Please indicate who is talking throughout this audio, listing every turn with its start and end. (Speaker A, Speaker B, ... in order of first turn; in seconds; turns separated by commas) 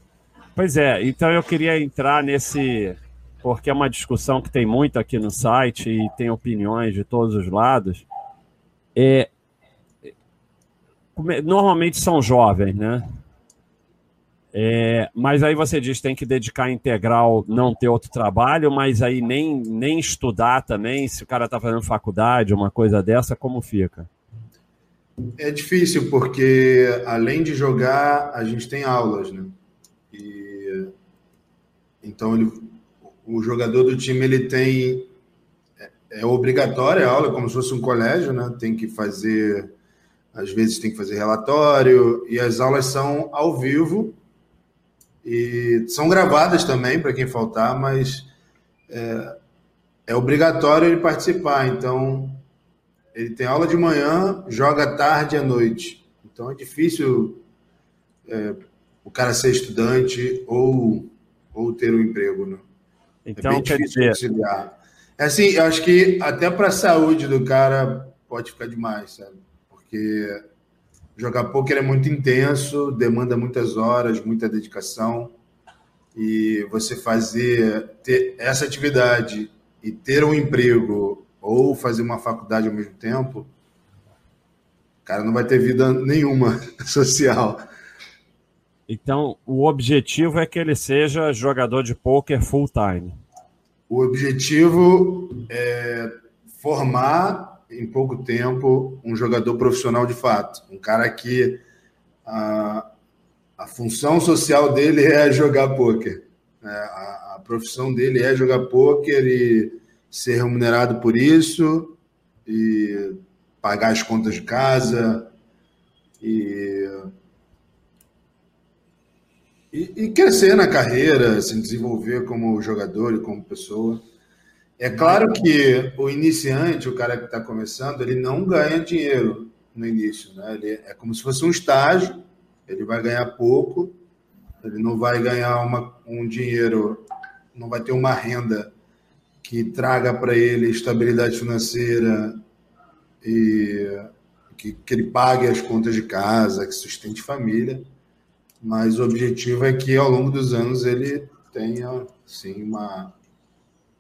Speaker A: 0.6-8.1, Speaker A: 8.9-9.3, Speaker A: 11.2-13.1, Speaker A: 14.5-24.1, Speaker B: 25.4-29.6, Speaker B: 30.1-30.9, Speaker B: 32.0-35.1, Speaker B: 36.1-39.7, Speaker B: 40.3-44.2, Speaker B: 45.2-48.3, Speaker B: 48.9-49.4, Speaker B: 50.1-52.4, Speaker B: 53.1-57.4, Speaker B: 58.3-62.6, Speaker A: 63.3-64.2, Speaker B: 63.4-70.4, Speaker B: 71.2-75.3, Speaker B: 76.2-83.5, Speaker B: 85.0-87.6, Speaker A: 88.9-93.2, Speaker B: 93.9-101.6, Speaker B: 102.2-102.9, Speaker B: 103.6-115.3, Speaker B: 116.2-117.1, Speaker B: 119.7-124.0, Speaker B: 124.8-134.0, Speaker A: 125.0-125.4, Speaker B: 134.6-138.7, Speaker B: 139.4-142.4, Speaker B: 143.2-147.8, Speaker B: 148.6-153.2